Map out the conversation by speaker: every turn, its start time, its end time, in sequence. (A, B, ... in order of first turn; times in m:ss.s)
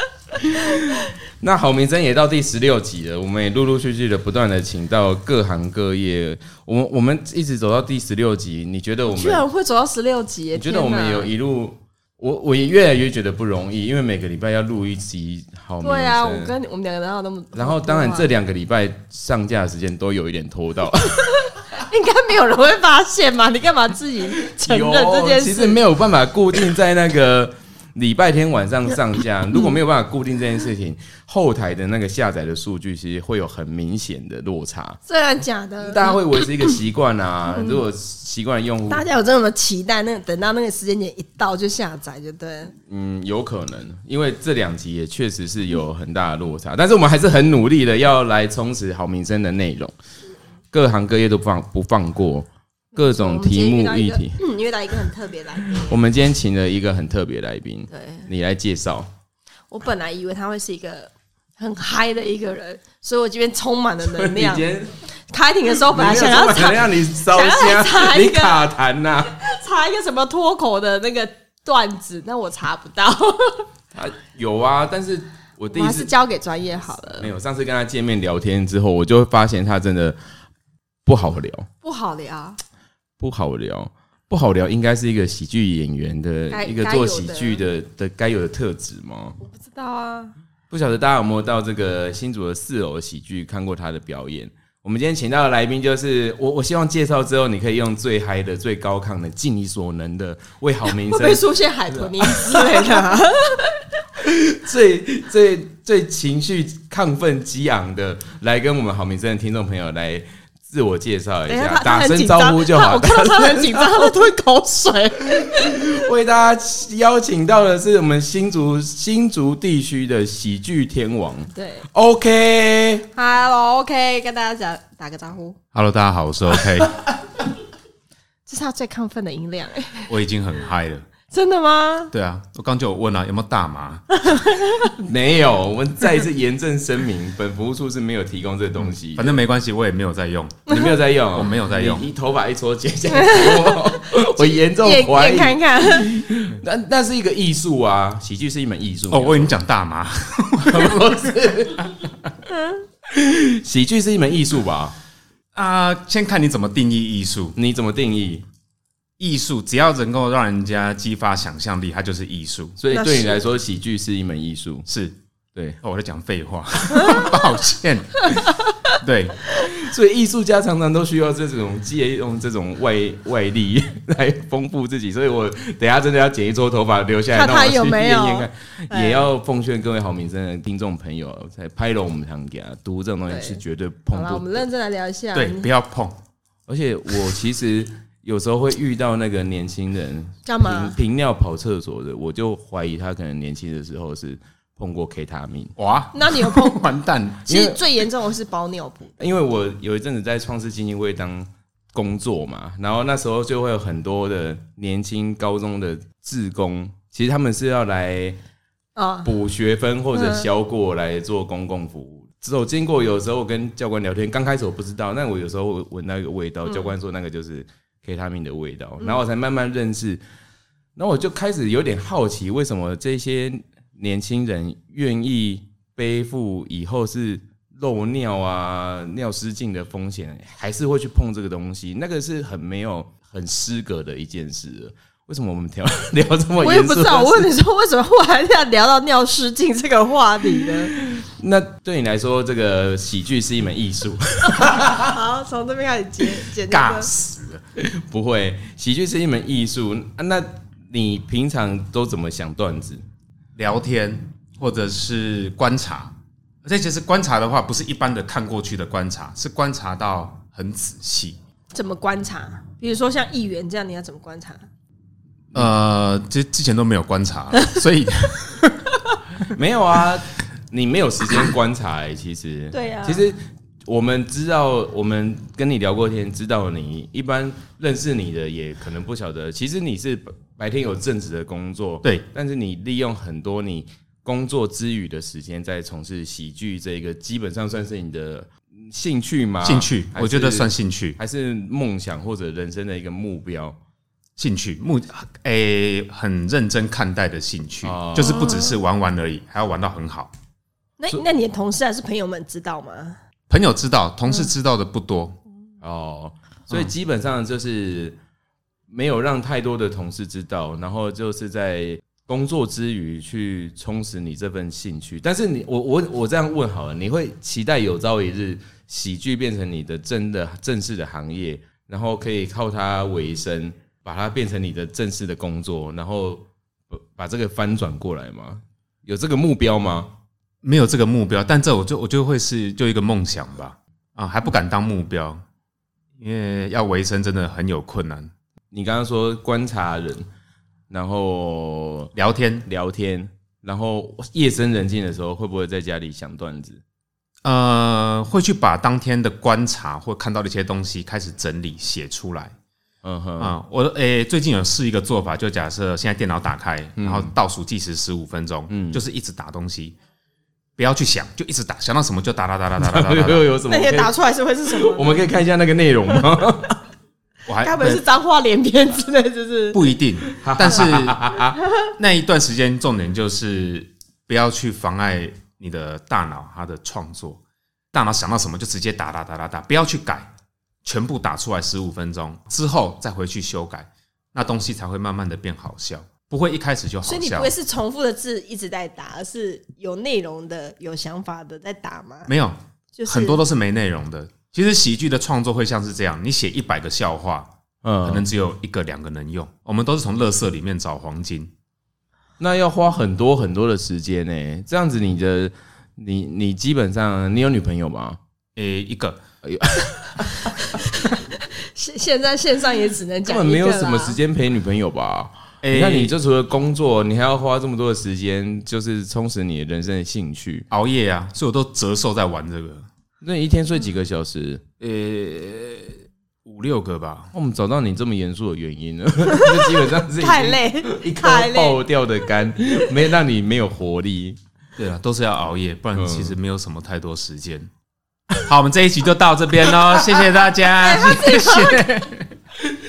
0:00.3-0:09.4 A
0:00.6-0:01.0 B
0:09.1-0:11.3 B
0:10.5-0:16.5 A
0:15.8-0:18.3 B
0:17.5-0:21.3 A
0:21.2-0:25.8 B
0:24.3-0:35.0 A
0:35.1-0:36.6 B
0:35.8-0:39.0 A
0:37.6-0:37.8 B
0:38.9-0:42.7 B
0:42.9-0:49.9 A
0:50.7-0:54.4 A
0:53.0-0:56.0 B
0:55.8-0:59.1 A
0:57.9-0:58.3 B
0:59.7-1:04.6 B
1:04.0-1:04.9 A
1:05.3-1:08.6 B
1:05.7-1:09.3 A
1:09.3-1:13.6 B
1:13.9-1:16.1 A
1:15.7-1:17.3 B
1:17.2-1:20.2 A
1:21.0-1:21.7 A
1:21.8-1:22.6 B
1:23.2-1:29.4 A
1:26.5-1:27.6 B
1:29.4-1:30.3 B
1:30.7-1:43.0 A
1:40.9-1:43.8 B
1:44.2-1:54.1 A
1:51.5-1:55.9 B
1:55.2-2:03.1 A
2:01.5-2:01.8 B
2:03.1-2:05.6 B
2:05.7-2:06.9 C
2:08.4-2:10.1 B
2:10.1-2:11.0 C
2:11.3-2:12.1 B
2:12.1-2:14.3 C
2:14.3-2:14.9 B
2:15.0-2:19.4 A
2:19.2-2:20.8 C
2:20.7-2:29.6 A
2:21.3-2:22.0 C
2:23.1-2:26.2 B
2:29.1-2:31.9 C
2:30.6-2:32.0 A
2:32.5-2:32.8 B
2:33.0-2:34.9 A
2:35.5-2:37.5 C
2:37.6-2:38.4 A
2:39.2-2:42.7 C
2:42.8-2:44.9 A
2:42.9-2:43.4 B
2:44.9-2:45.1 C
2:45.8-2:49.4 C
2:49.6-3:04.6 A
2:57.3-2:59.2 B
3:03.3-3:03.6 B
3:04.1-3:05.7 B
3:05.3-3:06.2 C
3:06.7-3:15.7 A
3:10.4-3:11.0 B
3:15.8-3:17.5 C
3:16.1-3:16.8 B
3:17.4-3:19.1 B
3:17.5-3:17.8 A
3:19.2-3:28.4 A
3:29.0-3:29.3 B
3:29.2-3:40.2 A
3:30.1-3:30.5 B
3:41.0-3:57.5 A
3:56.6-4:00.9 B
4:00.9-4:05.1 A
4:04.6-4:07.1 B
4:06.7-4:07.6 C
4:07.8-4:13.0 A
4:13.6-4:16.1 C
4:16.6-4:21.4 C
4:21.7-4:24.6 B
4:25.5-4:28.9 C
4:29.5-4:53.8 A
4:32.7-4:33.3 B
4:49.6-4:51.2 C
4:54.4-5:00.3 C
4:57.8-4:58.6 A
4:58.4-4:58.7 B
5:01.0-5:03.2 B
5:03.5-5:05.4 C
5:05.8-5:08.2 A
5:08.9-5:30.1 A
5:30.6-5:35.4 C
5:36.2-5:38.3 C
5:38.7-5:40.3 A
5:40.9-5:42.1 A
5:42.1-5:42.6 C
5:42.6-5:46.8 A
5:47.4-5:52.5 C
5:53.0-5:53.6 A
5:53.4-6:00.0 C
5:57.0-5:57.3 A
5:58.7-5:59.0 A
6:00.8-6:03.5 C
6:02.8-6:04.1 A
6:03.7-6:05.3 B
6:04.7-6:06.8 A
6:07.5-6:08.0 C
6:07.6-6:09.9 B
6:09.7-6:11.3 C
6:10.3-6:11.6 A
6:12.0-6:17.4 C
6:17.9-6:20.3 C
6:20.8-6:27.5 C
6:27.0-6:32.3 B
6:32.3-6:37.5 C
6:33.0-6:33.4 B
6:37.8-6:38.3 A
6:38.0-6:41.5 C
6:42.4-6:48.2 A
6:48.6-6:49.2 C
6:49.4-6:50.8 A
6:51.0-6:54.2 B
6:53.2-7:00.6 A
6:55.6-6:56.1 C
7:00.7-7:02.8 C
7:03.2-7:04.6 A
7:04.8-7:07.3 C
7:07.3-7:14.4 A
7:09.4-7:11.8 B
7:14.8-7:17.7 C
7:15.9-7:16.3 A
7:18.4-7:22.3 C
7:20.8-7:21.8 B